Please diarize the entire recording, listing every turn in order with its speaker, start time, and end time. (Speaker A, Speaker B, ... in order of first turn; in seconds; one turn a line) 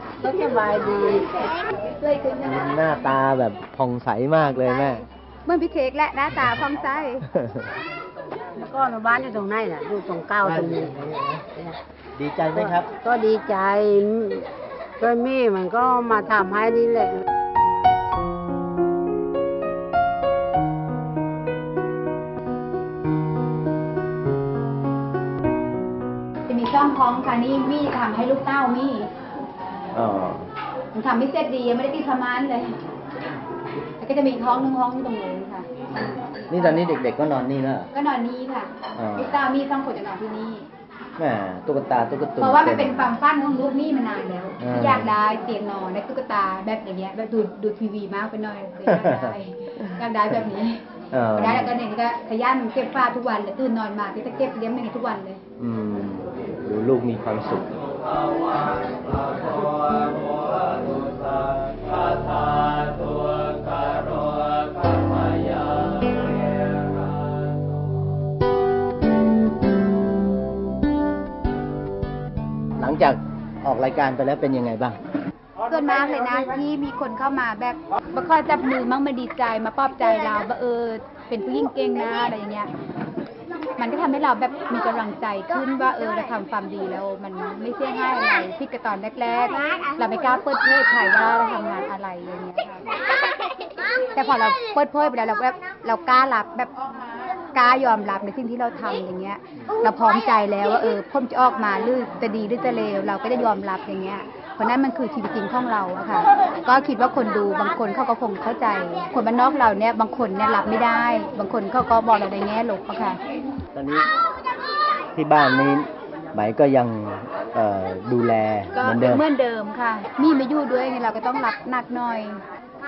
Speaker A: 0.2-1.6
Speaker B: 1.8-2.4
Speaker C: 2.4-5.0
Speaker B: 4.5-7.3
Speaker C: 7.3-7.7
Speaker A: 8.6-10.9
Speaker C: 10.4-11.4
Speaker C: 12.1-12.9
Speaker A: 12.6-17.2
Speaker B: 26.5-29.1
Speaker C: 29.9-30.5
Speaker B: 30.9-32.8
Speaker B: 34.0-35.7
Speaker C: 36.5-37.9
Speaker B: 37.9-40.7
Speaker C: 38.9-39.4
Speaker C: 41.2-43.1
Speaker B: 42.4-50.8
Speaker C: 44.6-45.1
Speaker C: 48.8-50.0
Speaker C: 51.1-51.8
Speaker B: 51.3-55.4
Speaker C: 55.6-57.8
Speaker C: 59.6-60.1
Speaker C: 62.3-62.8
Speaker C: 72.8-75.0
Speaker B: 75.7-82.7
Speaker B: 83.8-92.8
Speaker B: 94.1-96.7
Speaker B: 97.5-113.2
Speaker C: 113.7-114.1
Speaker C: 115.1-119.2
Speaker B: 118.7-122.4